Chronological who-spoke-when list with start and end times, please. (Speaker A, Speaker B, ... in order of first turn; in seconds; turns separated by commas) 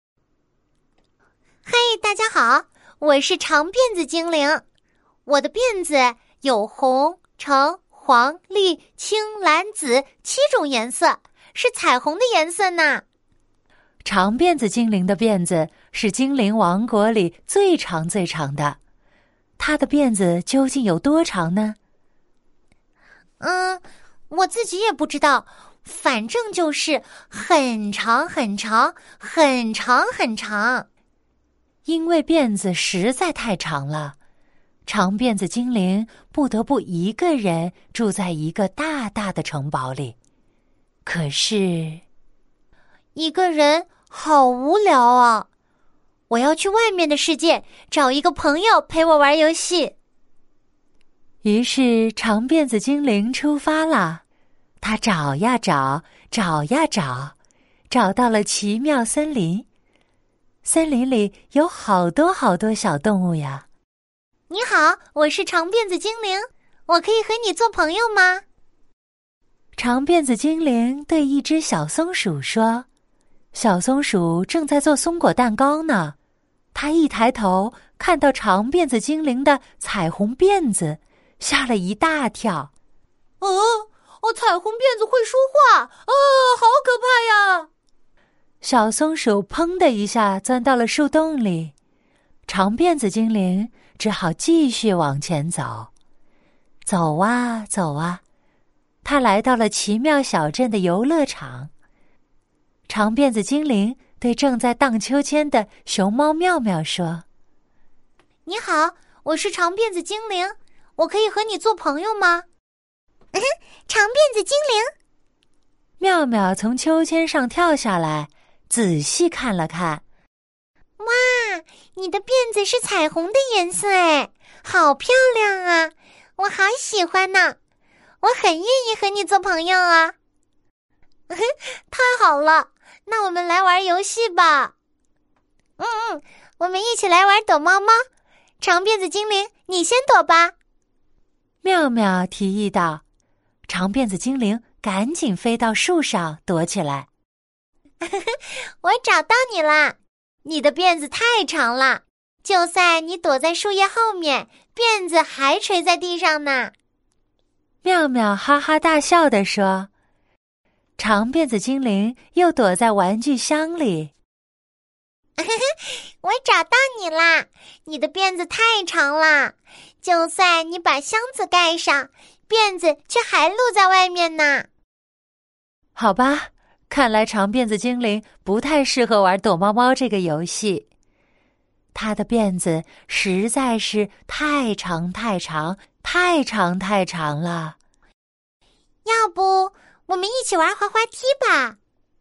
Speaker A: 1.7-4.6, Speaker A: 5.3-13.0, Speaker B: 14.0-18.8, Speaker B: 19.6-21.8, Speaker A: 23.4-30.9, Speaker B: 31.9-34.2, Speaker B: 34.9-40.2, Speaker B: 41.0-42.0, Speaker A: 43.1-45.5, Speaker A: 46.3-49.9, Speaker B: 51.4-54.2, Speaker B: 54.8-57.4, Speaker B: 57.9-59.7, Speaker B: 60.6-63.6, Speaker A: 64.5-68.4, Speaker B: 69.8-72.9, Speaker B: 73.5-76.2, Speaker B: 76.7-82.7, Speaker A: 83.4-87.7, Speaker B: 88.6-91.7, Speaker B: 92.5-95.9, Speaker B: 96.9-98.2, Speaker B: 99.0-101.7, Speaker B: 102.9-107.2, Speaker A: 108.5-112.5, Speaker A: 113.3-114.9, Speaker B: 116.0-120.0, Speaker A: 121.0-127.6, Speaker A: 128.2-130.2, Speaker A: 131.3-134.7, Speaker A: 135.8-138.1, Speaker A: 138.6-140.5, Speaker B: 141.6-143.0, Speaker B: 143.7-147.1, Speaker A: 148.0-156.7, Speaker B: 157.8-159.9, Speaker B: 161.0-164.1, Speaker A: 165.4-174.7, Speaker B: 175.9-180.9, Speaker B: 181.9-187.8, Speaker A: 189.1-191.8